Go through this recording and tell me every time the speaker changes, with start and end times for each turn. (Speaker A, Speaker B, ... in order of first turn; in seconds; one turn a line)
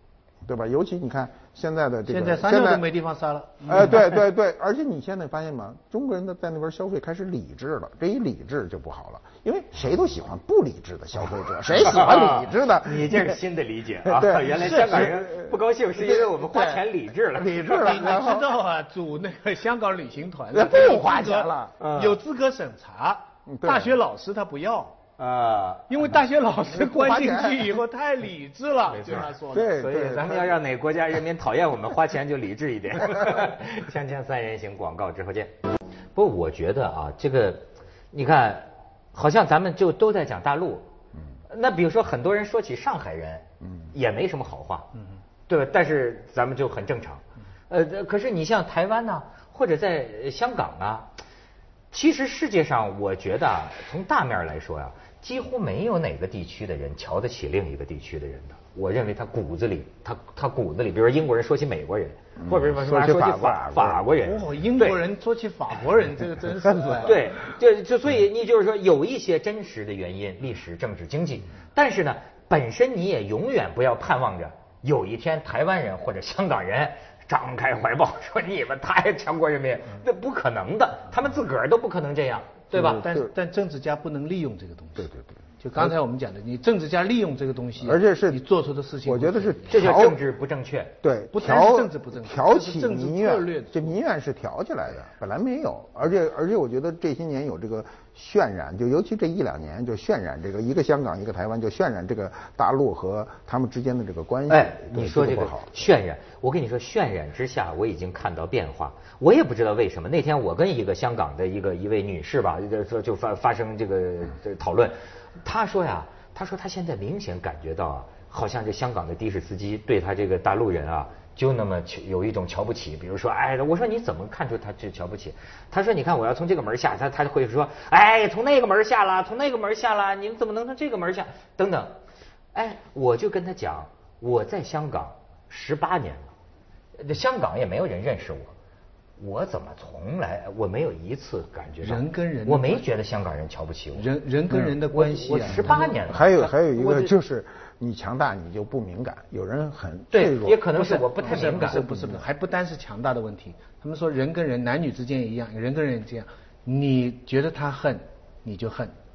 Speaker A: 0.4-2.8
Speaker B: 2.1-4.1
Speaker A: 3.7-13.4
Speaker C: 11.8-17.8
Speaker A: 14.0-18.6
Speaker B: 14.6-15.1
Speaker B: 17.7-25.0
Speaker A: 20.5-21.7
Speaker C: 21.8-22.2
Speaker A: 23.5-23.9
Speaker C: 25.2-25.9
Speaker B: 25.9-29.8
Speaker A: 26.7-27.8
Speaker C: 28.9-35.5
Speaker A: 29.4-30.6
Speaker C: 36.1-40.8
Speaker C: 41.5-44.9
Speaker C: 45.5-51.1
Speaker C: 51.9-65.0
Speaker A: 62.4-64.1
Speaker B: 64.1-67.1
Speaker A: 66.7-67.1
Speaker C: 67.0-83.0
Speaker A: 82.7-83.3
Speaker B: 82.9-89.8
Speaker A: 85.0-85.3
Speaker A: 87.8-88.4
Speaker A: 89.0-90.2
Speaker C: 89.7-90.9
Speaker A: 91.0-105.8
Speaker B: 91.3-93.9
Speaker C: 104.5-132.0
Speaker C: 132.5-136.3
Speaker C: 137.0-138.5
Speaker C: 139.2-144.1
Speaker B: 141.8-142.9
Speaker B: 143.9-146.0
Speaker C: 144.9-147.1
Speaker A: 145.6-150.6
Speaker C: 150.1-151.8
Speaker B: 150.8-158.9
Speaker A: 151.6-152.2